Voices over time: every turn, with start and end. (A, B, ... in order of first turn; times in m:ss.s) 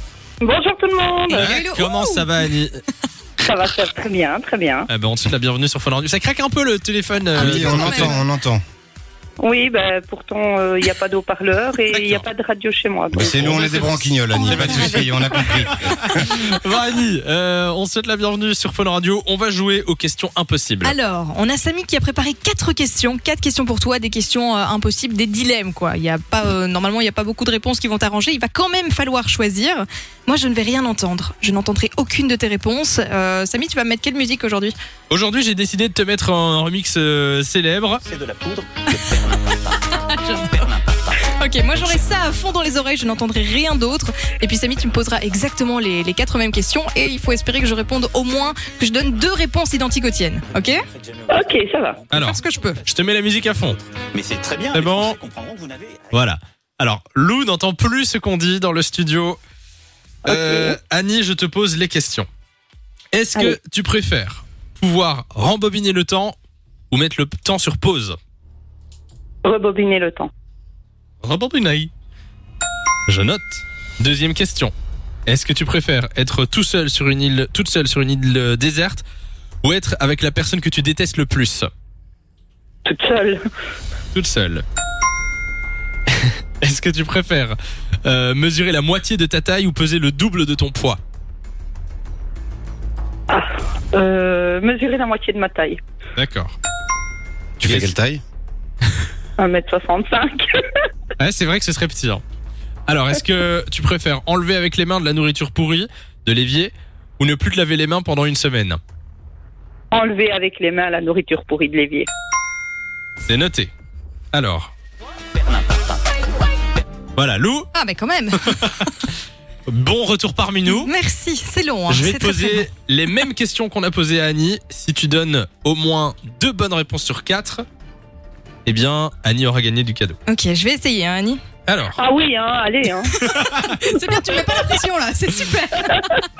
0:00.4-0:01.6 A
0:01.3-0:02.5 B
0:01.3-0:02.8 C
0:03.4-0:04.9 A
0:04.9-0:08.2 C
0:07.4-0:08.2 B
0:07.4-0:08.6 D
0:09.4-0:13.7 A
0:11.9-0:12.2 C
0:13.1-0:16.4 D
0:13.2-0:21.0 C
0:14.3-0:15.8 B
0:20.8-0:34.7 B
0:35.1-0:38.0 C
0:38.1-0:39.4 E
0:39.8-0:50.8 B
0:51.3-0:52.0 A
0:52.1-0:53.9 C
0:52.1-0:52.8 B
0:54.1-0:56.1 E
0:54.7-0:55.2 C
0:56.1-0:59.4 C
1:00.2-1:00.8 A
1:00.2-1:02.3 C
1:03.1-1:06.4 C
1:06.9-1:08.2 C
1:09.4-1:10.3 A
1:11.2-1:11.9 C
1:13.1-1:14.7 C
1:15.3-1:19.0 C
1:19.6-1:21.7 C
1:22.8-1:23.4 A
1:24.1-1:24.6 C
1:26.1-1:31.0 C
1:33.3-1:35.8 A
1:36.2-1:36.6 C
1:37.6-1:38.2 D
1:37.6-1:37.9 C
1:39.4-1:40.4 A
1:41.2-1:42.2 C
1:42.9-1:48.8 C
1:49.9-1:52.1 A
1:53.2-1:53.7 C
1:54.3-1:54.7 C
1:57.2-1:57.7 C
1:57.7-1:58.9 B
1:58.4-1:58.6 C
1:59.7-2:00.9 C
2:00.6-2:02.6 B
2:01.9-2:07.6 C
2:08.6-2:10.2 C
2:10.3-2:11.4 B
2:11.7-2:12.0 C
2:12.0-2:13.1 A
2:13.2-2:16.2 B
2:13.2-2:13.8 C